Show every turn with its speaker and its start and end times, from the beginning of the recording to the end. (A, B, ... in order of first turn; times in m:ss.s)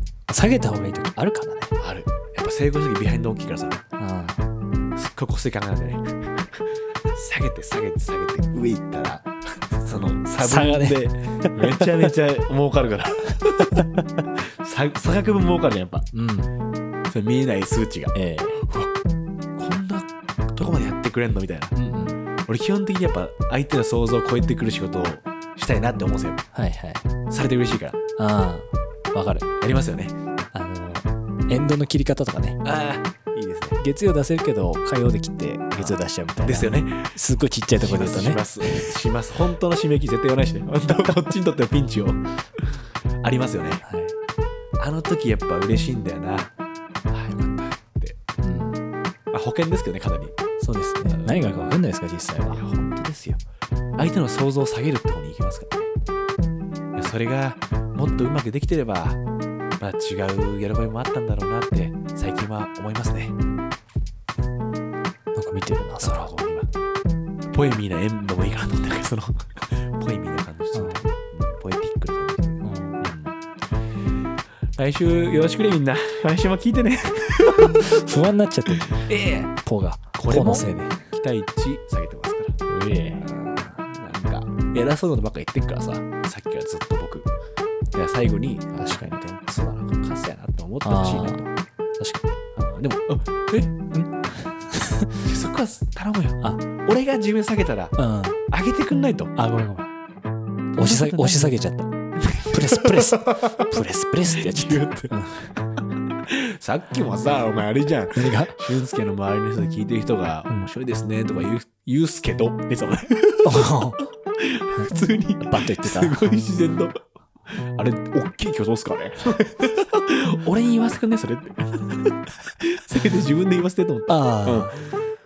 0:00.3-0:01.7 A
0:01.8-0:03.8 B
0:04.0-0:04.4 A
0:05.0-0:16.1 B
0:10.4-0:11.8 A
0:16.1-0:16.5 A
0:17.1-0:18.9 B
0:18.2-0:18.6 A
0:19.6-0:21.7 B
0:21.7-0:22.2 A
0:22.5-0:26.4 B
0:26.5-0:27.1 A
0:27.3-0:28.0 B
0:28.2-0:29.5 A
0:29.6-0:30.2 B
0:30.5-0:32.6 A
0:32.6-0:33.8 B
0:33.8-0:39.0 A
0:35.8-0:37.2 B
0:37.7-0:43.8 B
0:43.8-0:44.2 A
0:44.8-0:46.5 B
0:47.1-0:48.2 B
0:48.4-0:48.8 A
0:49.3-0:50.4 B
0:50.6-0:52.6 A
0:51.1-0:51.8 B
0:52.5-0:53.4 B
0:54.0-0:55.9 B
0:57.0-0:59.2 B
0:59.8-1:03.4 B
1:05.4-1:06.3 A
1:06.0-1:06.7 B
1:07.5-1:13.4 B
1:10.7-1:11.0 A
1:12.6-1:13.0 A
1:14.8-1:18.2 B
1:17.6-1:19.1 A
1:18.9-1:19.5 B
1:19.6-1:21.0 A
1:20.2-1:22.6 B
1:22.7-1:23.2 A
1:23.2-1:27.3 B
1:27.9-1:31.4 B
1:28.8-1:29.3 A
1:30.8-1:32.3 A
1:32.6-1:33.7 B
1:33.9-1:35.2 A
1:35.2-1:38.0 B
1:38.0-1:38.4 A
1:38.5-1:39.3 B
1:39.4-1:39.9 A
1:40.7-1:41.5 B
1:40.8-1:41.9 A
1:42.2-1:45.1 B
1:42.5-1:45.5 A
1:46.2-1:57.0 B
1:48.2-1:48.7 A
1:53.4-1:54.0 A
1:55.5-1:56.2 A
1:57.6-2:04.9 B
2:04.1-2:04.8 A